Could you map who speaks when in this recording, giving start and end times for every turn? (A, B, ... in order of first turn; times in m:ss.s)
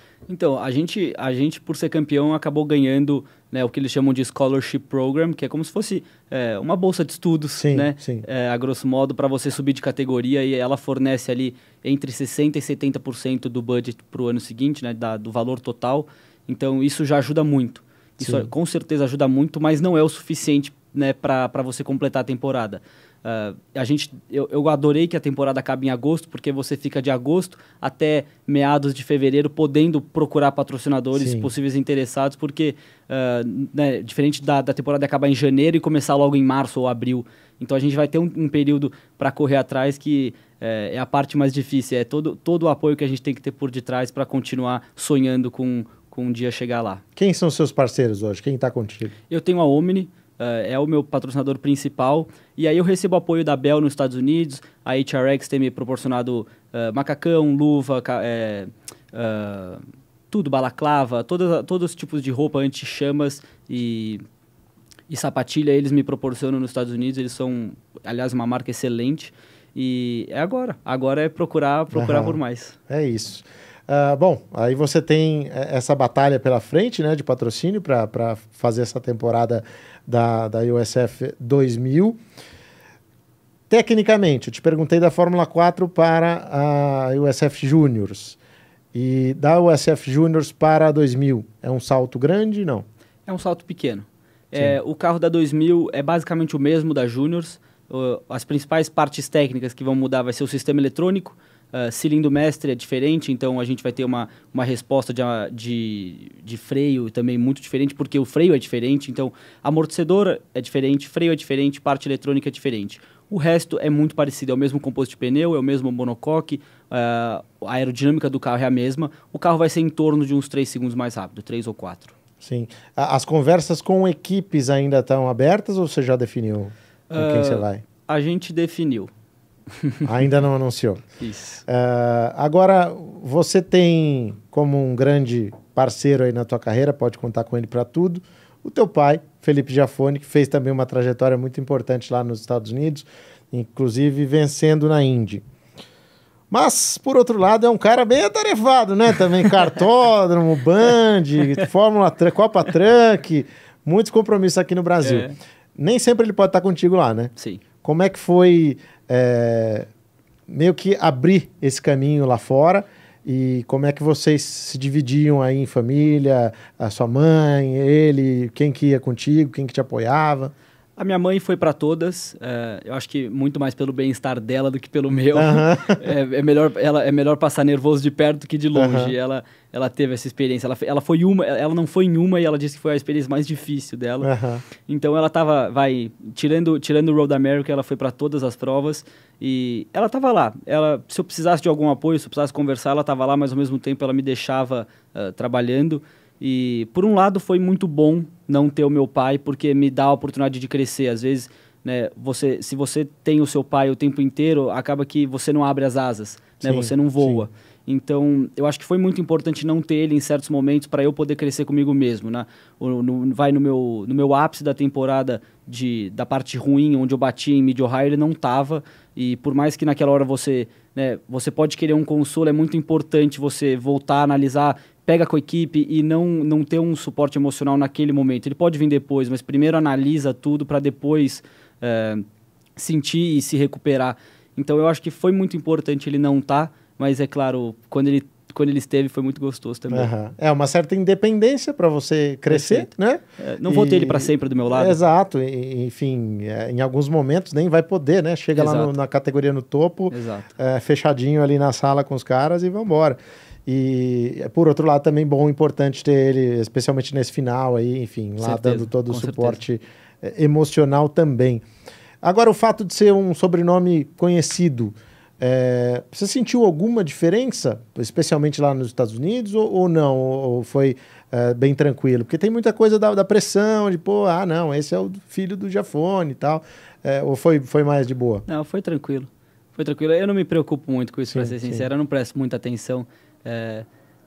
0:00.3-0:47.0 A
0:07.6-0:08.2 B
0:18.2-0:18.5 B
0:31.1-0:31.5 B
0:47.2-0:49.1 B
0:49.3-1:04.2 A
1:05.1-1:12.8 A
1:11.9-1:22.2 B
1:23.7-1:28.4 B
1:28.9-1:32.8 B
1:33.3-2:02.1 A
2:02.4-2:07.8 B
2:07.1-2:09.1 A
2:09.8-2:10.1 A
2:10.0-2:11.0 B
2:11.2-2:11.6 A
2:11.6-2:25.4 B
2:26.5-2:37.3 B
2:35.0-2:35.4 A
2:37.4-2:37.6 A
2:37.8-2:39.9 B
2:40.5-2:50.5 B
2:51.0-3:52.2 A
2:55.3-2:56.0 B
2:58.7-2:59.1 B
3:04.2-3:04.6 B
3:26.6-3:27.4 B
3:52.8-4:00.1 A
3:59.9-4:21.6 B
4:02.5-4:05.0 A
4:08.6-4:08.9 A
4:10.1-4:10.5 A
4:18.4-4:19.6 A
4:22.2-4:38.4 B
4:38.5-4:43.9 A
4:41.3-4:41.8 B